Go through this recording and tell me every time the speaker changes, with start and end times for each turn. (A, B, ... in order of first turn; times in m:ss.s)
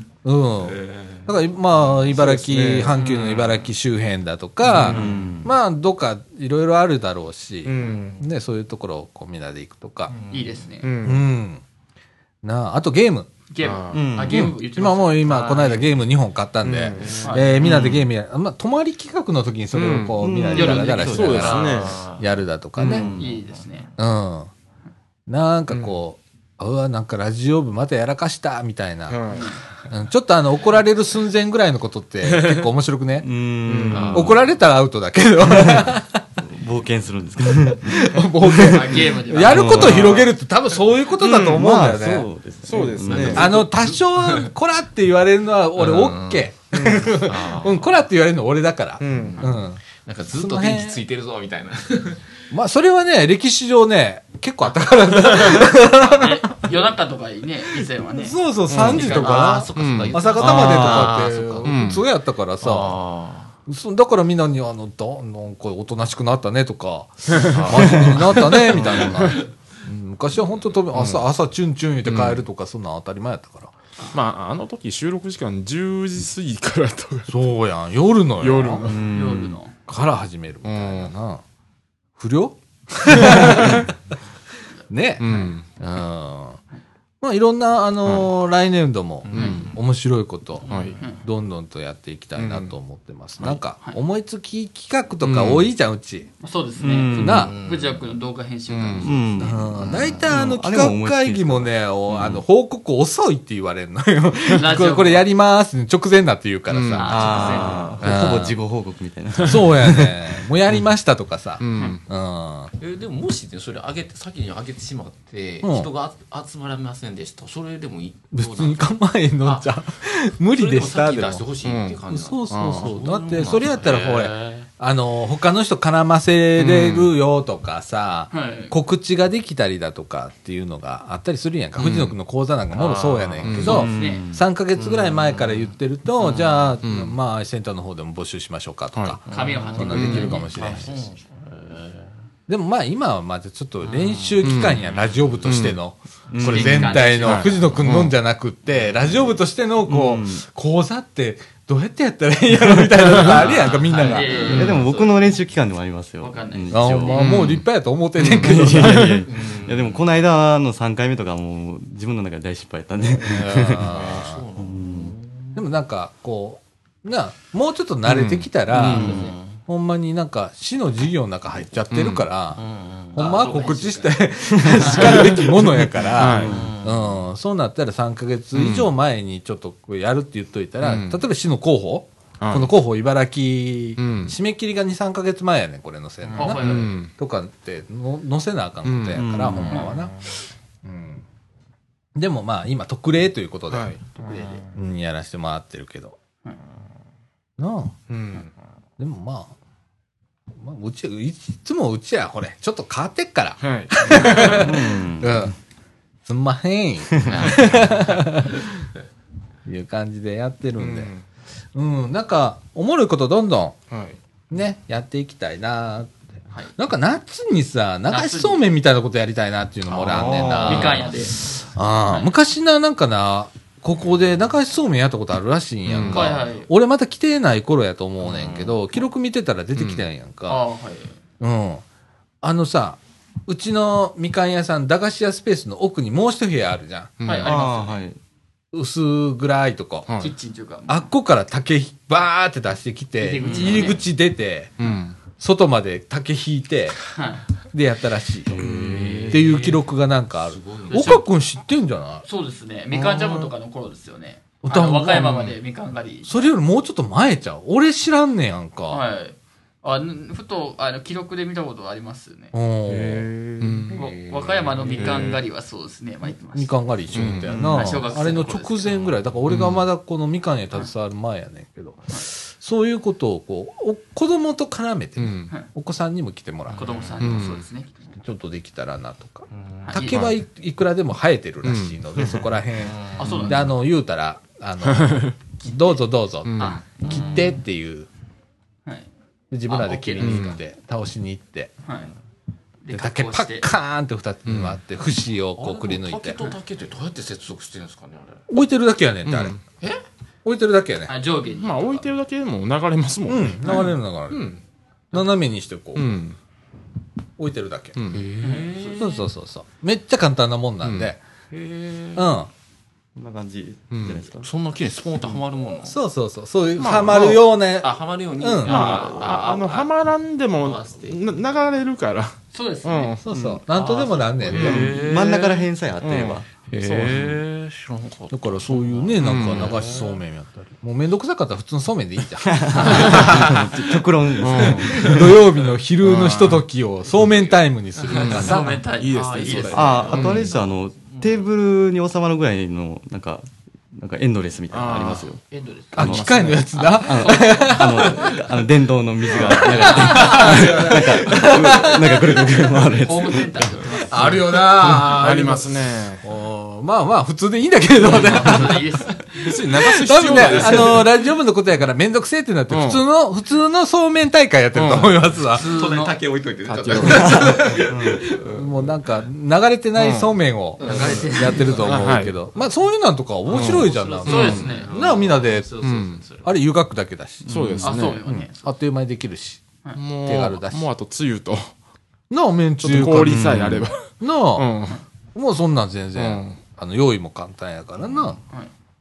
0:00.2-0:10.1 A
0:00.8-0:01.2 B
0:02.1-0:03.0 C
0:03.0-0:03.7 B
0:04.7-0:05.0 C
0:04.8-0:05.5 D
0:07.6-0:08.2 C
0:10.1-0:10.7 B
0:10.3-0:10.9 E
0:10.8-0:11.2 C
0:11.0-0:11.6 A
0:12.4-0:13.3 A
0:13.5-0:15.9 E
0:13.6-0:14.0 C
0:13.9-0:14.5 D
0:14.2-0:23.1 A
0:16.6-0:18.0 C
0:17.2-0:17.7 E
0:19.7-0:20.2 C
0:20.2-0:21.6 D
0:20.5-0:21.7 E
0:21.1-0:22.0 C
0:21.2-0:22.2 B
0:22.8-0:23.1 C
0:22.8-0:23.4 D
0:23.1-0:23.9 E
0:24.0-0:24.5 A
0:25.3-0:29.2 A
0:25.7-0:25.9 C
0:29.1-0:29.5 C
0:29.3-0:29.6 E
0:29.9-0:33.3 A
0:32.2-0:32.7 C
0:33.2-0:34.4 D
0:33.6-0:34.2 C
0:33.9-0:34.4 B
0:34.1-0:36.2 A
0:35.4-0:40.3 D
0:37.5-0:42.3 A
0:38.5-0:40.2 E
0:41.2-0:41.7 C
0:41.4-0:43.6 D
0:42.6-0:43.7 C
0:43.1-0:44.5 B
0:43.1-0:51.0 A
0:45.8-0:46.5 B
0:46.7-0:47.1 C
0:47.1-0:47.9 B
0:49.0-0:49.4 C
0:49.1-0:52.2 B
0:52.5-0:56.7 A
0:56.0-0:59.7 E
0:58.0-1:03.0 A
0:58.7-0:59.1 C
0:58.8-1:01.9 B
0:59.8-1:00.2 C
1:00.4-1:01.2 D
1:01.6-1:02.0 C
1:02.6-1:03.5 B
1:03.6-1:13.7 A
1:07.3-1:09.4 C
1:09.2-1:09.4 B
1:10.9-1:11.2 C
1:14.1-1:17.5 C
1:17.3-1:19.0 A
1:18.4-1:19.0 C
1:18.8-1:19.6 D
1:19.1-1:19.7 E
1:19.9-1:21.4 A
1:20.6-1:21.1 C
1:22.2-1:23.9 A
1:23.2-1:23.8 C
1:24.9-1:26.6 A
1:25.2-1:25.6 C
1:25.2-1:25.5 E
1:27.2-1:36.3 A
1:28.0-1:28.3 C
1:29.2-1:29.8 B
1:29.3-1:29.7 C
1:29.4-1:29.6 E
1:30.6-1:31.0 B
1:30.7-1:31.0 C
1:32.4-1:32.7 C
1:33.4-1:34.0 E
1:35.2-1:35.7 C
1:36.4-1:39.9 E
1:36.8-1:37.6 D
1:37.2-1:37.5 A
1:37.4-1:38.1 B
1:38.7-1:39.1 C
1:39.0-1:42.4 D
1:39.4-1:48.6 A
1:39.8-1:40.2 B
1:44.5-1:45.2 E
1:46.7-1:47.1 C
1:46.9-1:48.0 E
1:47.0-1:50.2 D
1:47.3-1:47.9 B
1:49.4-1:52.7 A
1:51.6-1:52.0 C
1:51.8-1:52.0 E
1:52.8-1:59.7 B
1:55.6-1:55.9 A
1:58.3-2:01.5 A
2:00.5-2:04.7 B
2:01.6-2:03.0 C
2:02.1-2:19.2 A
2:08.3-2:08.7 E
2:11.8-2:12.1 C
2:12.7-2:13.7 B
2:13.4-2:13.9 C
2:13.6-2:14.2 E
2:13.6-2:14.4 D
2:14.8-2:16.6 B
2:16.8-2:17.2 C
2:19.3-2:22.1 B
2:19.3-2:20.8 E
2:19.8-2:20.9 A
2:19.9-2:20.3 C
2:22.5-2:34.6 A
2:23.8-2:25.2 B
2:24.4-2:24.8 C
2:25.4-2:25.8 C
2:26.3-2:27.1 D
2:26.4-2:27.8 E
2:27.2-2:28.1 C
2:28.8-2:29.2 B
2:29.8-2:30.4 D
2:33.2-2:35.1 B
2:33.3-2:35.3 E
2:34.5-2:37.6 D
2:36.2-2:37.4 E
2:36.7-2:39.2 A
2:37.2-2:37.6 C
2:38.2-2:45.1 D
2:38.2-2:39.2 C
2:39.2-2:40.0 B
2:43.2-2:44.4 A
2:43.7-2:45.6 B
2:45.5-2:52.6 A
2:48.0-2:49.3 C
2:48.8-2:49.3 D
2:48.8-2:49.6 B
2:51.9-2:52.2 C
2:52.5-2:53.3 B
2:53.1-3:10.2 A
2:53.2-2:55.4 E
2:54.5-2:54.8 D
2:54.8-2:56.6 C
2:56.2-2:56.7 D
2:56.4-2:57.2 B
2:58.5-2:58.9 C
3:00.8-3:01.2 C
3:02.4-3:02.7 C
3:04.0-3:04.4 C
3:06.3-3:06.5 B
3:06.4-3:07.0 E
3:06.5-3:07.1 C
3:08.8-3:09.2 C
3:09.1-3:09.9 D
3:10.8-3:11.2 A
3:12.1-3:16.2 A
3:13.7-3:14.0 C
3:17.6-3:17.9 A
3:18.1-3:18.5 C
3:19.0-3:19.5 A
3:20.6-3:25.5 A
3:23.6-3:24.6 C
3:24.1-3:25.5 D
3:26.2-3:28.8 A
3:27.2-3:28.4 B
3:29.6-3:31.1 A
3:30.8-3:31.2 C
3:31.7-3:33.8 A
3:33.9-3:34.2 C
3:34.5-3:36.2 A
3:36.8-3:50.6 A
3:38.1-3:38.6 E
3:40.0-3:41.1 B
3:40.1-3:40.9 D
3:40.6-3:41.5 E
3:45.9-3:46.4 C
3:46.0-3:46.7 E
3:48.2-3:48.8 B
3:49.7-3:50.0 C
3:50.5-3:51.2 E
3:51.4-3:51.8 A
3:52.4-3:57.2 A
3:57.2-3:57.6 C
3:57.2-3:57.8 E
3:57.4-3:58.2 D
3:58.7-4:00.1 A
4:00.1-4:00.3 C
4:00.2-4:01.1 E
4:00.9-4:04.8 A
4:03.2-4:04.0 E
4:03.4-4:03.9 B
4:04.8-4:05.2 C
4:05.3-4:07.0 A
4:07.1-4:07.4 E
4:07.7-4:08.6 A
4:08.5-4:09.4 D
4:08.6-4:09.4 C
4:08.9-4:09.8 B
4:09.2-4:12.2 A
4:10.4-4:10.9 B
4:10.9-4:11.2 E
4:12.2-4:16.4 E
4:12.9-4:13.5 C
4:14.6-4:15.6 A
4:16.2-4:19.0 A
4:18.9-4:22.5 E
4:22.5-4:23.3 A
4:22.9-4:24.0 D
4:23.6-4:24.0 C
4:23.9-4:26.7 E
4:24.0-4:25.4 B
4:25.0-4:25.4 C
4:26.3-4:36.9 A
4:27.1-4:27.9 C
4:27.5-4:29.1 E
4:29.5-4:29.8 C
4:35.2-4:35.5 C
4:36.7-4:37.2 B
4:36.8-4:38.1 E
4:37.2-4:37.6 C
4:38.2-4:48.1 A
4:39.5-4:39.9 B
4:39.9-4:40.2 E
4:40.0-4:40.4 C
4:41.6-4:42.2 C
4:42.8-4:43.5 B
4:43.2-4:43.7 E
4:44.8-4:45.3 C
4:45.6-4:46.0 E
4:46.4-4:46.8 C
4:46.6-4:47.5 E
4:47.0-4:47.5 B
4:49.5-4:51.7 A
4:49.7-4:50.6 E
4:50.2-4:50.6 C
4:51.8-4:52.1 E
4:52.8-4:53.7 E
4:52.9-4:56.4 A
4:54.4-4:54.8 C
4:55.6-4:58.4 B
4:58.5-4:59.6 A
4:59.2-4:59.6 C
5:00.4-5:01.1 A
5:01.1-5:02.0 E
5:01.6-5:04.6 C
5:03.3-5:04.5 A
5:03.6-5:03.9 E
5:05.1-5:06.2 A
5:05.9-5:06.4 C
5:07.4-5:08.0 A
5:08.0-5:08.2 C
5:08.1-5:09.0 B
5:08.4-5:09.2 E
5:09.0-5:11.2 A
5:10.8-5:11.1 C
5:11.5-5:12.3 B
5:12.1-5:12.5 A
5:13.2-5:14.5 D
5:13.9-5:14.2 C
5:14.4-5:16.0 B
5:15.8-5:19.0 A
5:16.8-5:17.4 C
5:17.2-5:19.9 B
5:18.6-5:23.2 C
5:20.6-5:21.2 B
5:22.5-5:23.2 E
5:23.2-5:24.9 A
5:23.3-5:23.6 D
5:23.8-5:24.3 E
5:23.8-5:25.7 B
5:24.5-5:24.9 C
5:24.5-5:26.5 D
5:26.0-5:27.4 C
5:26.7-5:30.2 B
5:28.3-5:33.7 A
5:29.2-5:29.8 C
5:32.4-5:35.1 D
5:33.0-5:33.3 C
5:33.0-5:33.6 B
5:34.4-5:35.4 C
5:34.6-5:38.8 A
5:36.0-5:36.6 C
5:38.0-5:41.5 B
5:38.1-5:40.5 C
5:38.2-5:40.2 E
5:39.7-5:45.4 D
5:44.7-5:45.4 C
5:45.6-5:46.2 B
5:45.9-5:48.4 A
5:46.0-5:54.0 D
5:46.0-5:46.6 C
5:46.7-5:48.3 E
5:49.4-5:49.6 C
5:49.4-5:52.6 A
5:53.0-5:54.5 E
5:53.9-5:54.3 B
5:54.1-6:05.7 A
5:54.5-5:56.2 C
5:58.0-5:59.5 E
5:59.4-6:01.1 C
6:00.4-6:00.8 B
6:02.7-6:03.0 C
6:04.7-6:05.2 C
6:05.5-6:06.2 E
6:05.6-6:08.6 B
6:06.6-6:07.7 C
6:07.1-6:08.3 D
6:08.4-6:15.9 A
6:09.9-6:10.3 C
6:10.8-6:12.2 B
6:10.8-6:11.9 E
6:11.8-6:12.3 C
6:13.5-6:16.5 B
6:13.5-6:14.6 C
6:14.2-6:15.0 E
6:15.8-6:16.2 C
6:16.4-6:19.6 A
6:17.4-6:17.9 D
6:17.4-6:18.2 C
6:17.8-6:18.7 E
6:19.9-6:21.7 C
6:20.2-6:20.9 A
6:22.3-6:24.7 A
6:22.8-6:25.0 C
6:23.2-6:23.9 D
6:25.3-6:28.4 A
6:26.2-6:26.6 C
6:28.4-6:28.7 E